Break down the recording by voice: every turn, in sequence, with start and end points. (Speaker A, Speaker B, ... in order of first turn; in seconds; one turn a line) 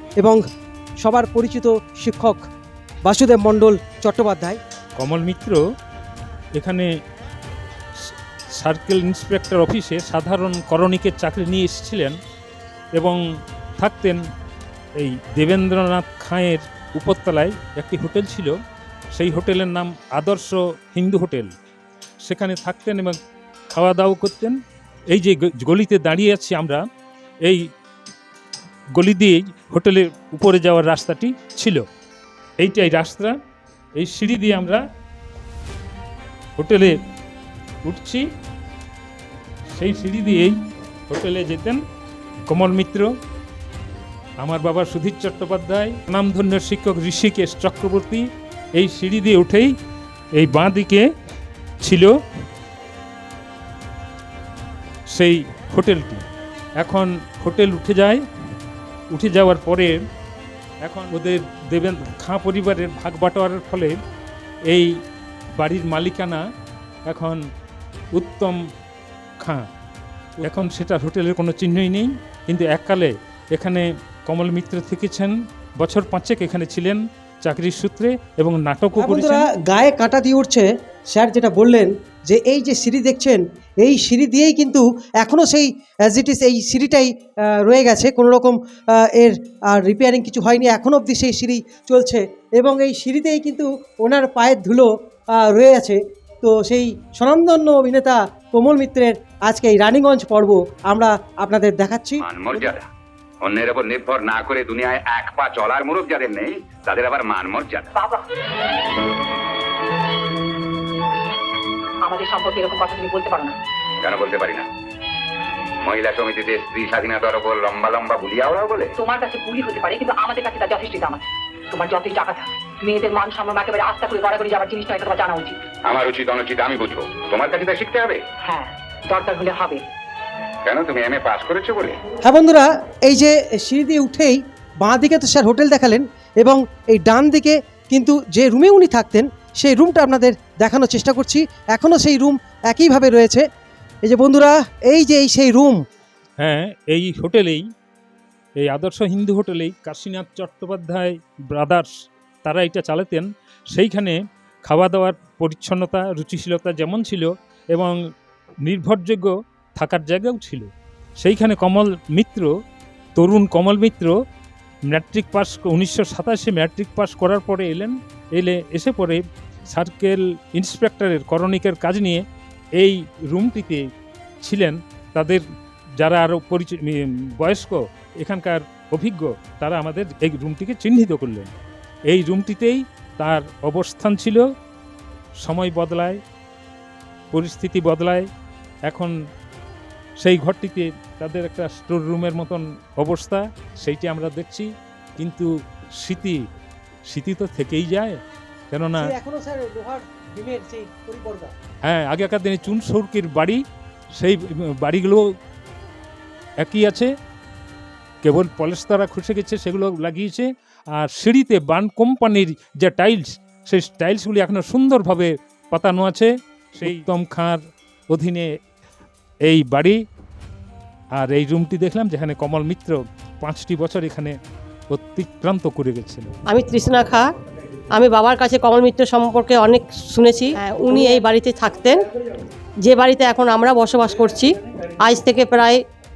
Speaker A: 1.0-2.4
Speaker A: 3.0-4.6
Speaker B: 5.0-5.6
Speaker B: 6.6-6.9
Speaker B: 8.0-12.2
Speaker B: 13.8-14.2
Speaker B: 15.0-18.5
Speaker B: 19.1-21.5
Speaker B: 22.2-23.2
Speaker B: 23.7-24.6
Speaker B: 25.1-26.8
Speaker B: 28.9-31.8
Speaker B: 32.6-33.3
Speaker B: 34.0-34.8
Speaker B: 36.6-37.0
Speaker B: 37.8-38.2
Speaker B: 39.7-40.5
Speaker B: 41.1-41.8
Speaker B: 42.5-43.1
Speaker B: 44.4-49.7
Speaker B: 50.4-51.0
Speaker B: 51.8-52.1
Speaker B: 55.1-56.2
Speaker B: 56.8-58.2
Speaker B: 59.1-60.0
Speaker B: 60.8-64.0
Speaker B: 65.6-66.4
Speaker B: 67.1-67.4
Speaker B: 68.1-68.6
Speaker B: 69.4-69.7
Speaker B: 70.4-79.5
Speaker A: 79.0-102.6
Speaker C: 102.2-102.9
Speaker C: 103.4-107.9
Speaker D: 108.0-108.2
Speaker D: 112.0-113.5
Speaker C: 114.0-114.7
Speaker C: 115.8-118.9
Speaker D: 119.0-125.6
Speaker C: 125.8-128.2
Speaker D: 128.4-129.8
Speaker C: 130.6-132.0
Speaker A: 132.2-143.4
Speaker A: 144.0-145.8
Speaker B: 146.4-147.6
Speaker B: 148.6-151.9
Speaker B: 152.4-157.9
Speaker B: 158.6-160.7
Speaker B: 161.2-162.5
Speaker B: 163.2-164.1
Speaker B: 164.9-172.2
Speaker B: 172.8-173.8
Speaker B: 174.4-175.4
Speaker B: 176.0-181.5
Speaker B: 182.1-184.4
Speaker B: 185.4-186.2
Speaker B: 187.3-188.2
Speaker B: 190.2-195.5
Speaker B: 196.0-196.4
Speaker B: 197.1-198.2
Speaker B: 198.7-199.1
Speaker A: 199.0-201.5
Speaker B: 201.8-203.6
Speaker B: 204.2-205.3
Speaker B: 206.6-207.1
Speaker B: 208.2-217.6
Speaker B: 218.1-218.5
Speaker B: 219.5-220.0
Speaker B: 221.2-224.3
Speaker B: 224.9-226.3
Speaker E: 226.5-227.3
Speaker E: 227.9-232.1
Speaker E: 232.8-235.8